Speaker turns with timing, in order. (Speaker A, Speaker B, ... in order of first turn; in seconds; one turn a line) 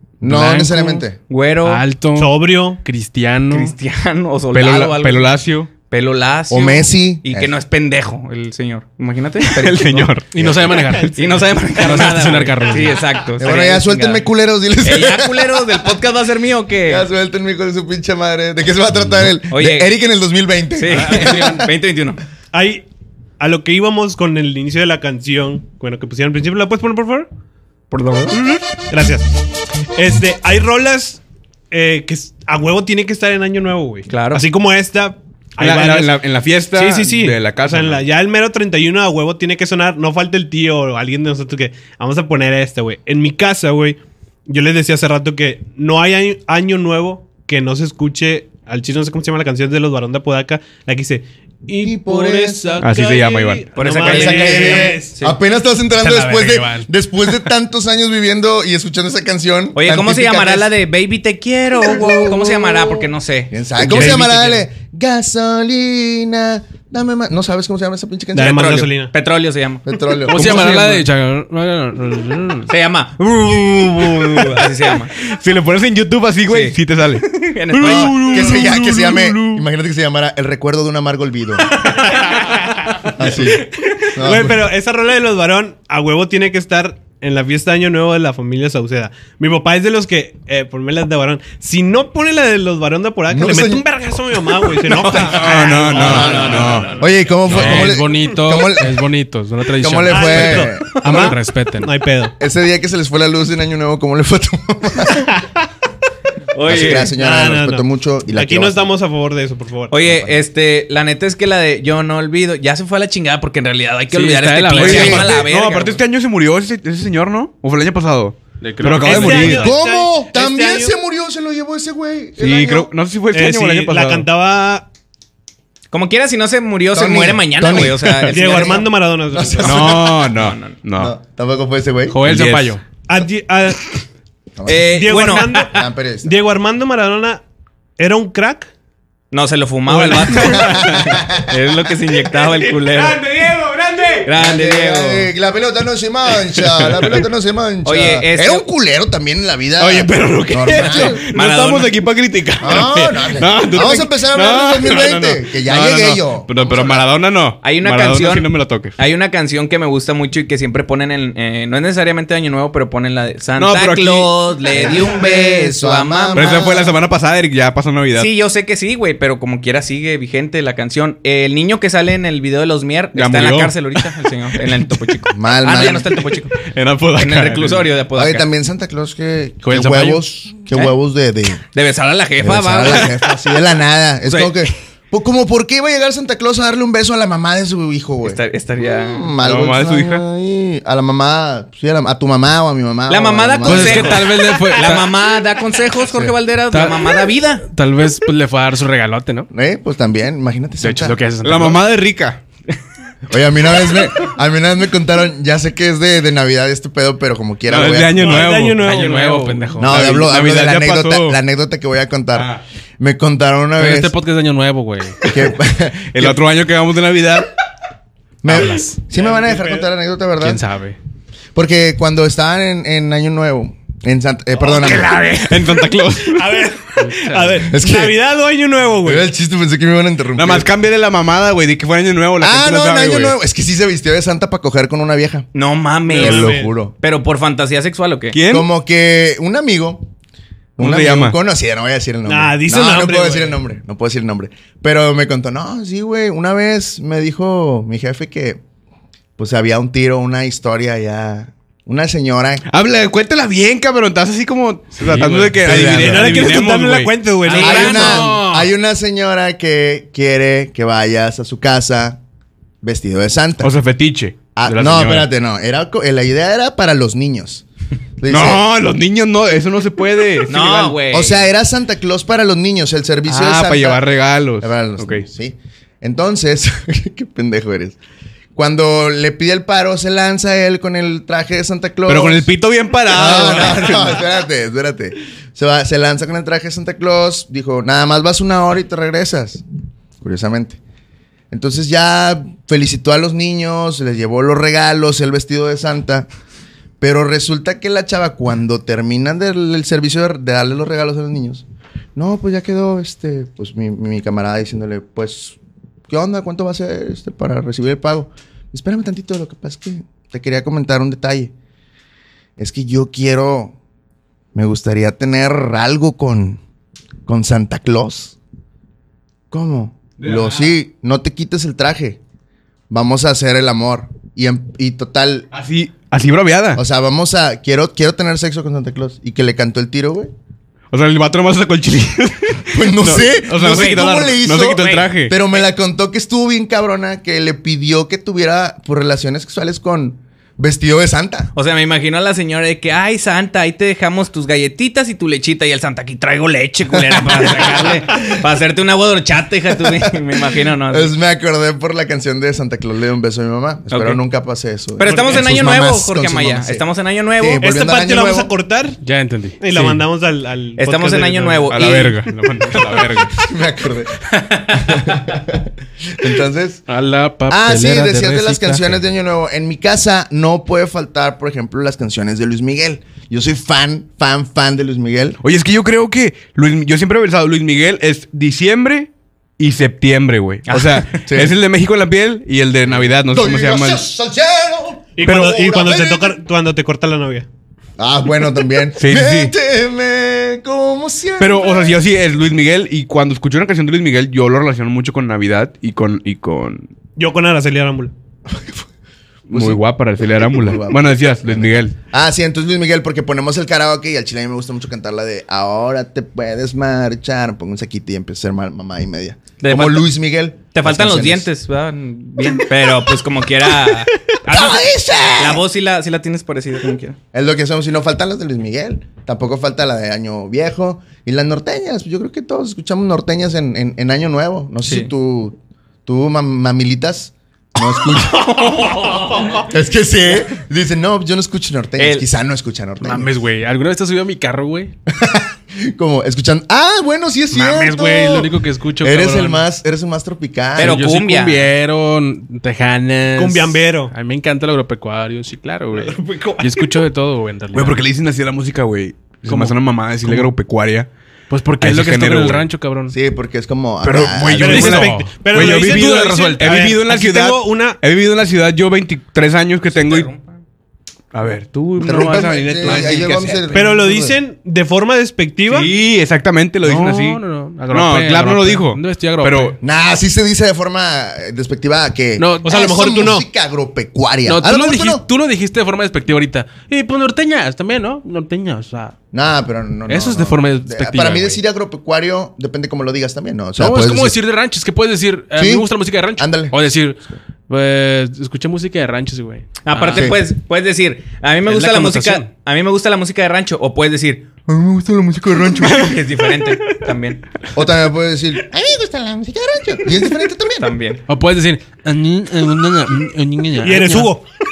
Speaker A: 0.2-1.2
Speaker B: 0.3-1.0
Speaker C: 1.3-1.8
Speaker B: 1.6-3.7
Speaker D: 2.2-2.8
Speaker C: 3.5-5.3
Speaker E: 4.5-5.7
Speaker C: 5.9-10.1
Speaker A: 6.5-7.5
Speaker E: 9.4-10.3
Speaker B: 10.3-11.2
Speaker A: 10.4-10.9
Speaker C: 10.8-14.3
Speaker B: 11.7-13.0
Speaker A: 13.4-16.0
Speaker C: 14.8-17.1
Speaker A: 16.9-21.7
Speaker C: 19.5-19.9
Speaker C: 20.8-22.2
Speaker B: 20.9-21.6
Speaker D: 22.5-22.9
Speaker D: 23.4-27.3
Speaker C: 27.9-28.4
Speaker D: 28.9-29.3
Speaker D: 29.9-36.2
Speaker C: 34.1-34.5
Speaker E: 35.6-38.0
Speaker D: 36.7-55.2
Speaker A: 51.8-52.9
Speaker E: 52.8-53.7
Speaker C: 53.8-55.4
Speaker A: 54.0-60.7
Speaker B: 56.0-56.9
Speaker C: 59.8-64.7
Speaker A: 61.8-68.9
Speaker E: 63.8-64.2
Speaker D: 68.3-69.1
Speaker C: 69.1-69.9
Speaker A: 69.9-70.6
Speaker B: 70.3-72.7
Speaker E: 70.3-71.1
Speaker C: 70.5-70.8
Speaker C: 72.7-75.1
Speaker E: 75.2-79.7
Speaker C: 76.5-78.4
Speaker A: 77.8-81.8
Speaker D: 81.8-96.9
Speaker A: 83.2-84.6
Speaker A: 93.3-93.8
Speaker E: 94.8-96.9
Speaker C: 95.4-97.2
Speaker A: 96.0-99.0
Speaker E: 97.5-97.9
Speaker B: 97.5-101.9
Speaker A: 99.8-101.3
Speaker D: 100.1-102.3
Speaker A: 102.4-105.3
Speaker C: 106.5-107.1
Speaker A: 106.7-108.9
Speaker D: 106.8-109.9
Speaker C: 109.9-116.0
Speaker A: 110.0-110.4
Speaker B: 114.1-115.2
Speaker E: 114.8-119.8
Speaker A: 114.8-115.4
Speaker B: 118.6-119.7
Speaker D: 119.0-121.0
Speaker A: 119.4-122.9
Speaker E: 122.4-124.3
Speaker D: 123.3-124.9
Speaker C: 125.9-128.9
Speaker A: 126.9-130.3
Speaker D: 128.3-130.0
Speaker E: 129.6-131.2
Speaker C: 130.3-130.8
Speaker A: 131.0-132.2
Speaker B: 132.1-132.8
Speaker E: 132.2-132.8
Speaker D: 133.1-134.0
Speaker A: 134.6-134.9
Speaker C: 134.7-135.7
Speaker D: 134.8-137.4
Speaker A: 135.7-136.3
Speaker D: 138.0-138.7
Speaker C: 139.3-143.2
Speaker E: 139.9-141.2
Speaker A: 140.6-141.5
Speaker E: 142.2-144.3
Speaker C: 144.3-145.3
Speaker A: 144.3-151.2
Speaker E: 146.5-147.2
Speaker C: 147.8-148.7
Speaker E: 149.8-158.9
Speaker C: 150.9-151.9
Speaker A: 152.6-157.1
Speaker C: 157.6-166.7
Speaker E: 163.6-164.3
Speaker A: 164.7-166.9
Speaker E: 166.3-168.3
Speaker C: 168.2-176.5
Speaker E: 173.2-174.1
Speaker A: 175.3-176.2
Speaker E: 176.6-177.8
Speaker C: 177.2-178.5
Speaker A: 178.1-181.7
Speaker B: 179.6-180.2
Speaker C: 181.7-183.2
Speaker A: 182.4-194.4
Speaker C: 184.3-184.7
Speaker C: 188.2-189.3
Speaker E: 189.4-190.2
Speaker C: 193.1-197.7
Speaker B: 193.6-195.2
Speaker B: 196.7-199.5
Speaker A: 199.5-201.2
Speaker B: 200.8-201.8
Speaker E: 201.4-202.4
Speaker A: 203.3-208.5
Speaker E: 207.7-211.4
Speaker D: 208.2-209.5
Speaker B: 208.4-210.0
Speaker A: 209.8-214.2
Speaker E: 212.3-212.6
Speaker B: 213.8-215.2
Speaker A: 215.2-216.4
Speaker E: 216.1-217.5
Speaker A: 218.4-220.6
Speaker B: 218.5-219.1
Speaker D: 219.1-219.9
Speaker B: 220.4-221.0
Speaker A: 221.6-225.3
Speaker E: 224.7-226.7
Speaker D: 226.3-229.3
Speaker B: 227.0-227.6
Speaker A: 227.7-228.2
Speaker A: 229.0-230.7
Speaker E: 230.3-233.3
Speaker A: 232.4-235.5
Speaker C: 235.5-238.4
Speaker D: 236.1-236.7
Speaker A: 236.1-236.9
Speaker E: 238.3-238.7
Speaker A: 238.5-240.1
Speaker A: 240.8-248.6
Speaker E: 240.8-241.4
Speaker D: 242.3-243.6
Speaker A: 249.4-252.6
Speaker E: 252.7-258.2
Speaker B: 255.1-255.9
Speaker A: 255.6-256.6
Speaker D: 255.7-258.3
Speaker C: 257.4-258.7
Speaker A: 257.6-262.2
Speaker A: 262.8-263.7
Speaker E: 263.6-265.3
Speaker A: 264.6-267.6
Speaker A: 268.2-268.6
Speaker E: 268.3-271.0
Speaker C: 270.5-271.5
Speaker A: 271.1-274.0
Speaker E: 273.3-275.2
Speaker A: 274.6-278.0
Speaker A: 278.6-282.5
Speaker E: 282.1-284.2
Speaker A: 283.1-289.6
Speaker A: 290.2-290.8
Speaker A: 291.5-296.3
Speaker A: 297.0-305.6
Speaker A: 306.1-311.5
Speaker A: 312.6-313.8
Speaker A: 314.5-316.6
Speaker A: 317.3-318.4
Speaker A: 319.5-322.2
Speaker E: 320.2-320.8
Speaker A: 322.9-325.5
Speaker E: 325.5-326.8
Speaker A: 326.8-330.3
Speaker E: 330.9-335.4
Speaker A: 332.7-341.5
Speaker C: 334.7-335.6
Speaker C: 341.6-351.1
Speaker A: 346.9-348.3
Speaker A: 349.7-358.5
Speaker C: 353.9-354.2
Speaker C: 355.0-357.6
Speaker D: 355.0-355.7
Speaker D: 357.6-359.0
Speaker B: 359.0-360.0
Speaker D: 359.6-362.1
Speaker C: 360.8-362.2
Speaker E: 361.7-363.4
Speaker A: 363.4-364.1
Speaker C: 364.3-365.3
Speaker A: 364.7-366.8
Speaker B: 366.9-369.0
Speaker A: 367.5-375.4
Speaker E: 375.4-384.0
Speaker C: 380.7-381.2
Speaker A: 381.3-381.6
Speaker A: 382.9-386.4
Speaker D: 385.2-387.5
Speaker E: 385.3-385.6
Speaker A: 388.0-392.0
Speaker E: 389.0-389.5
Speaker E: 391.4-396.9
Speaker D: 397.2-398.1
Speaker A: 398.5-398.9
Speaker E: 399.5-402.0
Speaker A: 399.5-399.8
Speaker A: 400.4-411.5
Speaker C: 409.6-410.1
Speaker C: 410.7-417.2
Speaker A: 414.5-415.6
Speaker A: 417.3-428.5
Speaker C: 424.8-425.1
Speaker C: 428.1-429.7
Speaker A: 429.6-433.3
Speaker C: 432.0-432.3
Speaker B: 433.0-434.9
Speaker A: 435.1-441.0
Speaker B: 437.5-439.6
Speaker B: 440.8-448.0
Speaker C: 440.8-441.7
Speaker D: 443.4-444.1
Speaker D: 446.3-446.7
Speaker E: 447.7-451.1
Speaker B: 449.5-450.5
Speaker B: 451.5-453.2
Speaker E: 451.8-452.7
Speaker A: 453.1-455.0
Speaker E: 454.0-460.3
Speaker D: 454.6-458.0
Speaker B: 454.7-456.9
Speaker C: 459.9-460.6
Speaker E: 461.3-463.9
Speaker A: 462.0-464.4
Speaker D: 463.7-465.9
Speaker E: 465.7-469.8
Speaker B: 466.8-469.8
Speaker A: 469.8-475.2
Speaker B: 472.4-472.9
Speaker D: 472.6-473.5
Speaker B: 474.5-479.1
Speaker A: 479.3-484.4
Speaker B: 480.1-481.6
Speaker B: 483.8-490.3
Speaker A: 485.6-486.8
Speaker C: 489.9-494.5
Speaker A: 490.1-490.4
Speaker B: 491.7-492.5
Speaker A: 494.7-496.2
Speaker C: 495.9-497.4
Speaker A: 497.7-500.9
Speaker C: 500.8-501.2
Speaker B: 501.3-504.3
Speaker D: 503.8-504.4